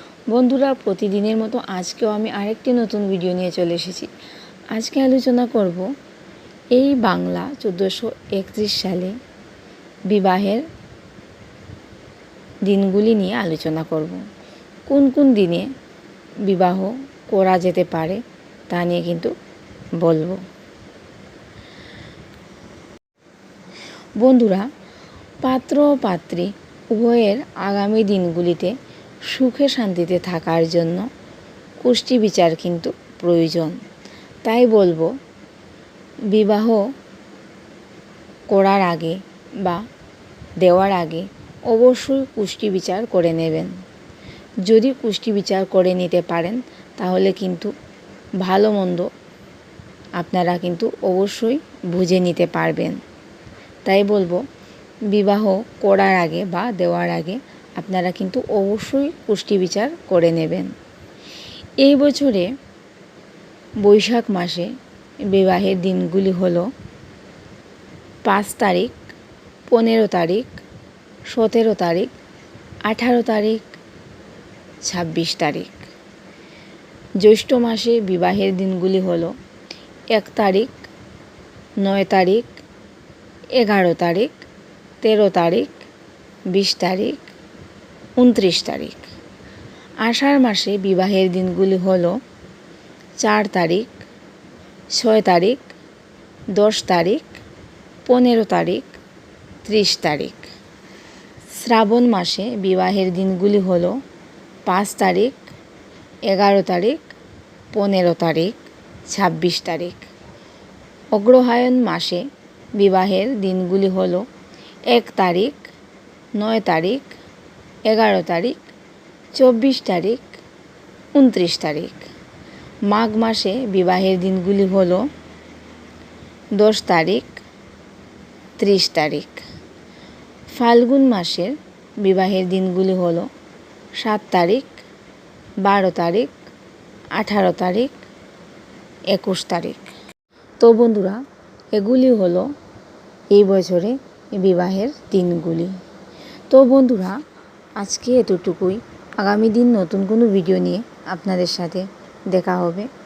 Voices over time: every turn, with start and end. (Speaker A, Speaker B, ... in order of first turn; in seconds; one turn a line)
Speaker A: 0.3-4.1
Speaker A: 4.7-5.9
Speaker A: 6.7-9.1
Speaker A: 10.1-10.6
Speaker A: 12.7-14.2
Speaker A: 14.9-15.7
Speaker A: 16.5-19.3
Speaker A: 20.0-20.4
Speaker A: 24.2-24.7
Speaker A: 25.4-28.7
Speaker A: 29.3-31.1
Speaker A: 31.8-33.8
Speaker A: 34.4-35.1
Speaker A: 36.3-36.8
Speaker A: 38.5-39.8
Speaker A: 40.6-43.7
Speaker A: 44.6-47.7
Speaker A: 48.4-49.1
Speaker A: 50.2-53.0
Speaker A: 53.8-54.4
Speaker A: 55.1-60.7
Speaker A: 61.8-62.5
Speaker A: 63.8-64.7
Speaker A: 65.3-66.7
Speaker A: 68.2-69.1
Speaker A: 69.7-70.6
Speaker A: 71.3-72.1
Speaker A: 72.8-73.7
Speaker A: 74.8-75.9
Speaker A: 77.2-79.3
Speaker A: 80.1-80.8
Speaker A: 81.8-82.6
Speaker A: 83.5-84.5
Speaker A: 85.0-85.8
Speaker A: 86.5-87.3
Speaker A: 88.2-89.0
Speaker A: 90.0-92.2
Speaker A: 93.2-94.0
Speaker A: 94.9-95.7
Speaker A: 96.5-97.4
Speaker A: 98.0-99.0
Speaker A: 99.6-100.5
Speaker A: 101.5-104.0
Speaker A: 104.7-105.5
Speaker A: 106.3-107.1
Speaker A: 107.7-110.1
Speaker A: 111.1-114.2
Speaker A: 114.9-115.7
Speaker A: 116.3-117.2
Speaker A: 117.9-118.7
Speaker A: 119.3-120.4
Speaker A: 121.1-122.1
Speaker A: 122.9-125.0
Speaker A: 126.5-127.4
Speaker A: 128.6-129.4
Speaker A: 130.5-133.3
Speaker A: 134.0-134.8
Speaker A: 135.6-136.3
Speaker A: 137.1-138.0
Speaker A: 139.1-139.9
Speaker A: 140.6-141.2
Speaker A: 141.7-142.5
Speaker A: 143.3-145.8
Speaker A: 146.5-147.2
Speaker A: 147.8-152.9